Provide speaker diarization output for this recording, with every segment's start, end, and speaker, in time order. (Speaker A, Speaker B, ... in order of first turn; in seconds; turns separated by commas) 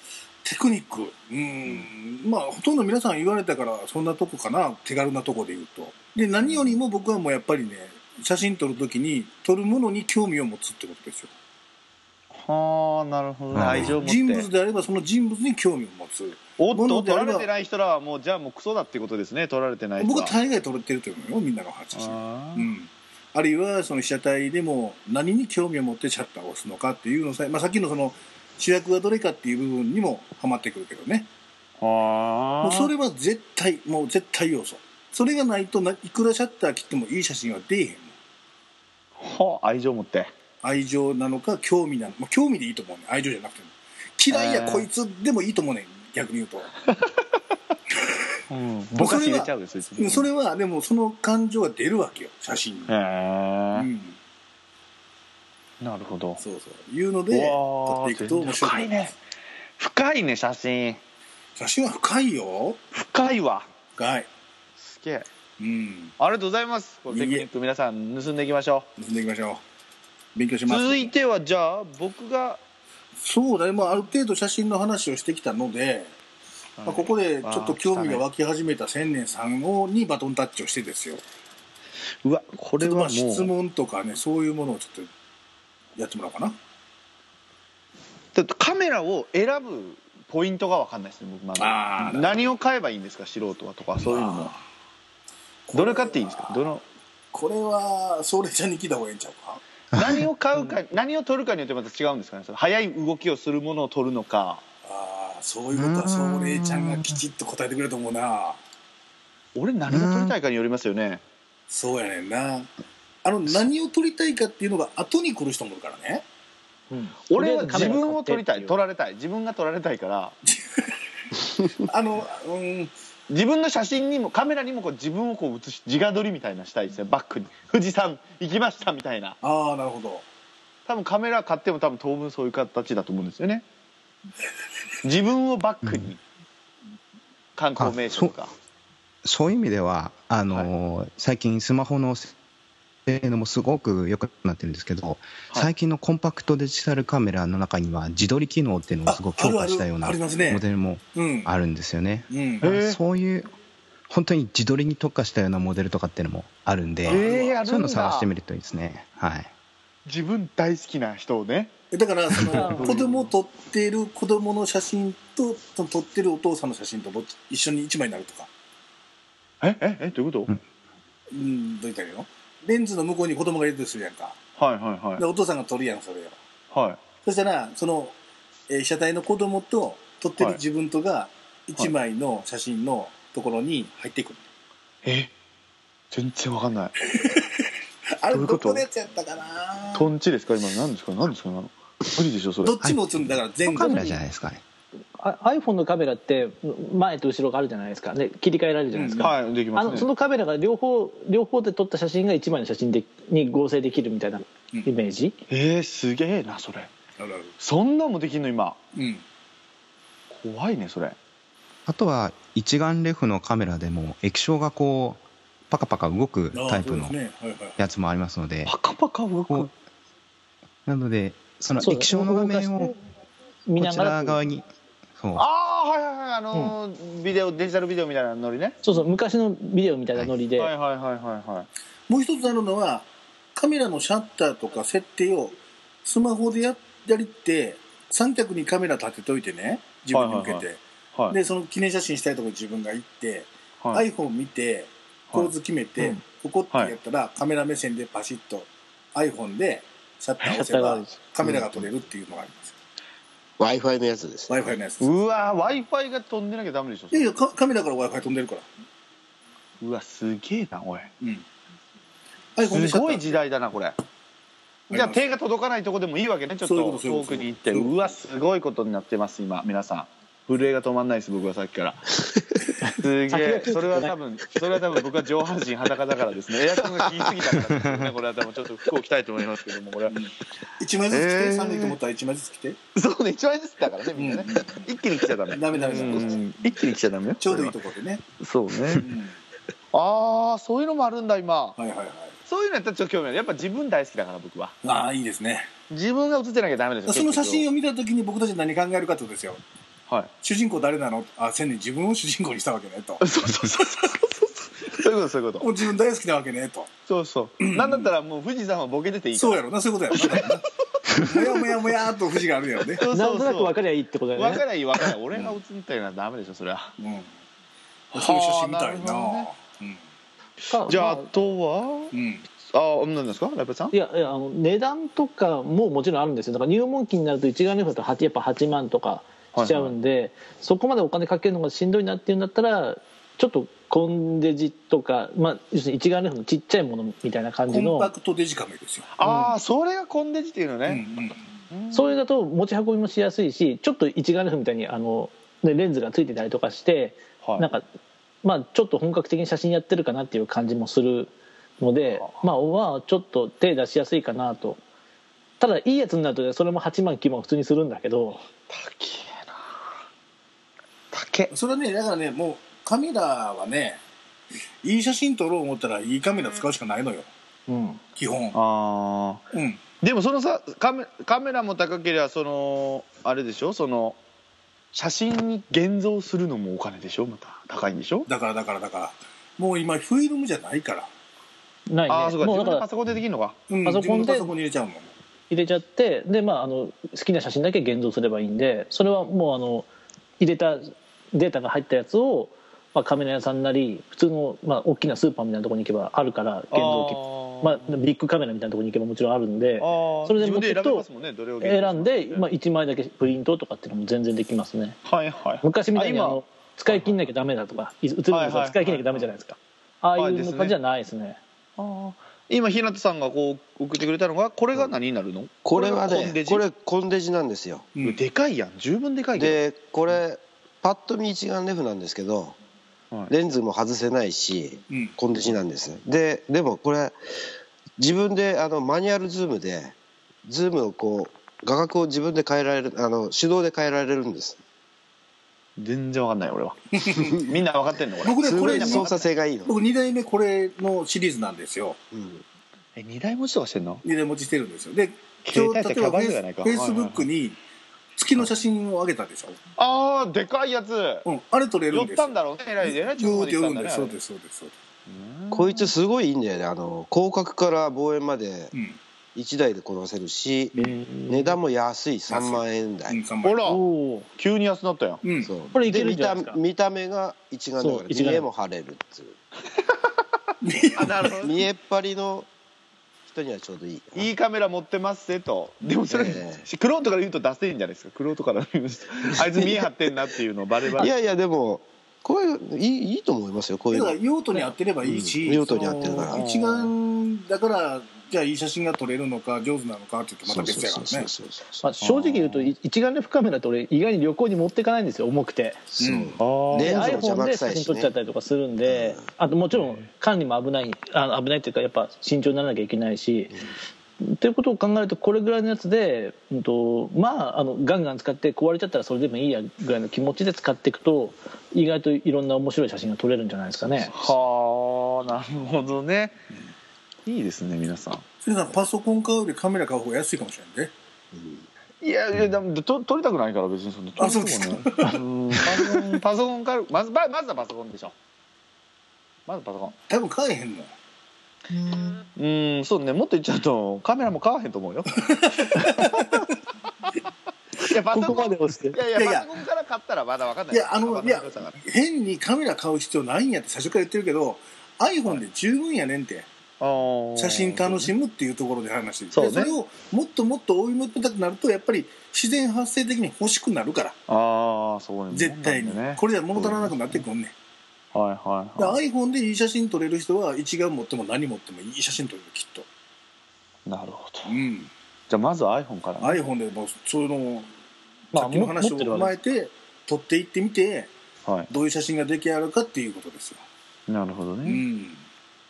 Speaker A: 0.4-11.3, Speaker B: 12.3-14.5, Speaker C: 13.5-14.0, Speaker A: 13.6-17.5, Speaker B: 16.6-20.3, Speaker A: 20.0-31.3, Speaker B: 21.9-22.7, Speaker B: 31.8-32.9, Speaker A: 32.6-38.1, Speaker B: 39.2-40.3, Speaker A: 40.6-46.7, Speaker B: 44.3-44.9, Speaker B: 48.5-50.3, Speaker A: 49.0-52.9, Speaker B: 52.9-53.9, Speaker A: 53.8-54.2, Speaker B: 55.8-56.4, Speaker A: 56.4-59.1, Speaker B: 57.3-59.1, Speaker B: 59.8-61.0, Speaker A: 61.6-62.8, Speaker B: 62.9-63.6, Speaker A: 64.0-64.3, Speaker B: 64.8-65.3, Speaker A: 65.6-66.1, Speaker B: 66.2-68.9, Speaker A: 67.1-67.5, Speaker A: 69.0-69.6, Speaker A: 70.3-71.1, Speaker B: 70.7-72.6, Speaker A: 73.2-76.1, Speaker B: 76.8-78.2, Speaker A: 76.9-81.2, Speaker B: 82.2-83.5, Speaker A: 82.8-85.1, Speaker A: 86.0-86.6, Speaker B: 88.3-94.5, Speaker A: 91.6-92.5, Speaker A: 94.0-94.6, Speaker A: 95.7-96.7, Speaker B: 95.7-96.8, Speaker A: 97.3-99.6, Speaker C: 99.9-100.3, Speaker B: 100.0-104.6, Speaker A: 104.8-108.6, Speaker C: 105.7-107.2, Speaker B: 109.5-111.2, Speaker C: 109.9-110.3, Speaker A: 111.7-112.7, Speaker A: 113.2-116.2, Speaker D: 116.9-118.8, Speaker B: 117.3-120.4, Speaker A: 120.5-120.8, Speaker A: 121.6-122.9, Speaker B: 123.3-129.4, Speaker A: 129.4-130.2, Speaker B: 130.9-133.6, Speaker B: 135.0-136.2, Speaker C: 135.8-136.1, Speaker B: 137.6-138.5, Speaker C: 137.8-138.3, Speaker C: 139.2-142.3, Speaker C: 143.1-153.5, Speaker A: 149.1-151.5, Speaker A: 152.3-152.7, Speaker B: 152.6-153.0, Speaker C: 154.1-159.5, Speaker A: 157.1-157.6, Speaker B: 157.1-158.3, Speaker B: 160.1-161.7, Speaker A: 161.9-168.5, Speaker B: 162.4-163.2, Speaker D: 162.5-163.0, Speaker B: 169.6-170.6, Speaker A: 171.3-174.4, Speaker B: 174.6-175.2, Speaker A: 175.2-176.4, Speaker B: 176.7-177.0, Speaker A: 177.2-178.1, Speaker A: 178.7-184.4, Speaker B: 185.0-185.3, Speaker B: 186.1-186.9, Speaker A: 187.0-187.7, Speaker A: 188.2-190.1, Speaker B: 188.3-188.8, Speaker B: 189.9-192.8, Speaker A: 192.6-194.0, Speaker C: 192.8-194.6, Speaker D: 193.7-194.2, Speaker D: 195.2-205.4, Speaker A: 198.9-199.3, Speaker B: 199.2-200.1, Speaker B: 205.5-206.9, Speaker A: 207.2-207.5, Speaker B: 207.6-208.8, Speaker A: 208.9-209.2, Speaker B: 210.3-211.2, Speaker C: 211.9-217.1, Speaker A: 216.5-217.8, Speaker C: 217.8-218.7, Speaker B: 218.7-219.7, Speaker C: 220.9-222.9, Speaker D: 221.8-222.9, Speaker D: 223.7-224.4, Speaker C: 223.8-224.6, Speaker C: 225.2-225.4, Speaker B: 225.4-228.8, Speaker D: 228.8-230.7, Speaker B: 230.6-231.7, Speaker A: 232.1-252.8, Speaker B: 240.1-241.4, Speaker D: 250.5-251.2, Speaker E: 253.6-254.7, Speaker A: 254.5-255.1, Speaker B: 255.0-257.3, Speaker A: 257.1-258.6, Speaker B: 259.8-261.1, Speaker A: 262.6-263.3, Speaker B: 262.7-264.0, Speaker A: 264.9-265.2, Speaker B: 264.9-272.2, Speaker A: 266.6-268.0, Speaker D: 272.8-274.1, Speaker B: 272.9-280.3, Speaker A: 280.1-282.8, Speaker B: 281.1-282.0, Speaker B: 282.9-287.8, Speaker A: 284.1-284.8, Speaker A: 285.4-286.4, Speaker A: 287.4-288.2, Speaker B: 288.4-289.0, Speaker A: 288.9-289.4, Speaker B: 289.9-291.8, Speaker A: 291.8-292.4, Speaker B: 292.5-294.8, Speaker A: 294.8-295.7, Speaker B: 295.9-297.7, Speaker A: 297.1-299.6, Speaker A: 300.4-304.1, Speaker B: 303.2-305.8, Speaker A: 305.6-306.9, Speaker B: 307.1-311.9, Speaker A: 307.6-308.1, Speaker A: 309.3-313.0, Speaker B: 312.9-313.8, Speaker D: 313.1-314.6, Speaker B: 314.4-316.9, Speaker A: 317.0-317.3, Speaker B: 318.1-319.5, Speaker A: 318.1-320.0, Speaker D: 320.7-321.3, Speaker B: 320.9-322.1, Speaker A: 322.1-322.4, Speaker B: 322.7-323.9, Speaker D: 323.9-338.1, Speaker B: 329.5-329.9, Speaker A: 337.7-339.1, Speaker B: 339.1-341.0, Speaker D: 339.2-339.5, Speaker A: 340.9-341.4, Speaker B: 341.7-342.1, Speaker D: 341.9-347.8, Speaker D: 348.4-354.8, Speaker B: 352.1-352.4, Speaker D: 355.6-358.4, Speaker B: 358.7-359.8, Speaker B: 361.1-361.5, Speaker A: 361.5-364.0, Speaker A: 364.8-367.3, Speaker D: 367.7-368.0, Speaker A: 368.1-368.6, Speaker B: 368.5-369.4, Speaker A: 369.5-369.8, Speaker B: 370.0-374.2, Speaker B: 374.9-378.3, Speaker A: 378.3-381.1, Speaker D: 381.9-382.9, Speaker B: 382.1-383.6, Speaker A: 383.7-385.1, Speaker D: 383.9-384.5, Speaker D: 385.5-389.9, Speaker D: 390.4-401.0, Speaker B: 396.7-397.9, Speaker B: 399.8-402.5, Speaker D: 401.6-405.0, Speaker B: 405.0-407.2, Speaker D: 405.6-411.4, Speaker B: 408.3-409.3, Speaker B: 410.2-410.8, Speaker B: 411.8-416.6, Speaker E: 415.6-417.9, Speaker A: 418.0-418.2, Speaker B: 418.0-419.6, Speaker E: 419.4-422.6, Speaker E: 423.3-427.1, Speaker A: 424.9-425.1, Speaker E: 428.0-434.6, Speaker B: 435.8-439.3, Speaker A: 437.0-437.4, Speaker E: 437.1-437.5, Speaker A: 438.2-439.1, Speaker E: 438.4-439.8, Speaker A: 439.6-442.0, Speaker E: 442.1-442.4, Speaker B: 443.0-444.0, Speaker A: 444.0-447.6, Speaker B: 445.4-447.3, Speaker A: 448.2-449.6, Speaker B: 449.8-451.3, Speaker A: 451.2-452.3, Speaker B: 451.9-454.1, Speaker A: 452.8-454.7, Speaker B: 455.1-455.9, Speaker E: 455.5-458.7, Speaker A: 458.7-459.0, Speaker E: 459.4-460.8, Speaker D: 460.8-461.6, Speaker E: 461.3-463.2, Speaker A: 462.3-463.6, Speaker B: 463.4-463.8, Speaker D: 463.6-464.3, Speaker B: 464.4-465.2, Speaker A: 465.2-465.5, Speaker E: 465.4-469.4, Speaker D: 465.7-466.6, Speaker D: 467.8-468.5, Speaker A: 470.6-471.4, Speaker B: 471.0-471.6, Speaker E: 471.4-472.5, Speaker E: 473.2-474.3, Speaker B: 474.1-481.1, Speaker E: 476.1-476.6, Speaker E: 479.4-479.8, Speaker E: 480.9-484.1, Speaker A: 483.9-491.3, Speaker E: 485.0-486.4, Speaker B: 486.3-486.9, Speaker E: 490.5-491.9, Speaker D: 491.8-495.9, Speaker B: 492.0-492.7, Speaker A: 496.0-496.4, Speaker E: 496.0-498.1, Speaker B: 496.4-497.3, Speaker D: 496.8-503.5, Speaker E: 498.9-499.3, Speaker B: 499.7-500.1, Speaker D: 504.2-514.3, Speaker B: 514.1-516.4, Speaker B: 517.2-518.2, Speaker A: 518.4-520.9, Speaker E: 521.3-521.6, Speaker B: 522.0-528.1, Speaker A: 524.2-525.1, Speaker D: 525.0-526.0, Speaker B: 529.5-530.0, Speaker A: 530.1-530.9, Speaker B: 532.4-536.3, Speaker A: 535.3-536.4, Speaker B: 537.8-541.8, Speaker D: 538.1-539.0, Speaker A: 539.1-539.5, Speaker A: 540.7-546.5, Speaker B: 546.8-548.1, Speaker A: 547.4-554.2, Speaker B: 549.3-549.7, Speaker B: 554.3-557.2, Speaker A: 555.3-557.5, Speaker B: 558.1-559.0, Speaker A: 558.8-562.9, Speaker B: 563.9-564.5, Speaker A: 564.5-564.9, Speaker B: 565.3-566.4, Speaker A: 566.2-567.7, Speaker A: 568.3-571.1, Speaker D: 568.3-569.4, Speaker B: 571.5-571.7, Speaker A: 571.7-573.6, Speaker B: 574.1-574.8, Speaker A: 574.6-575.2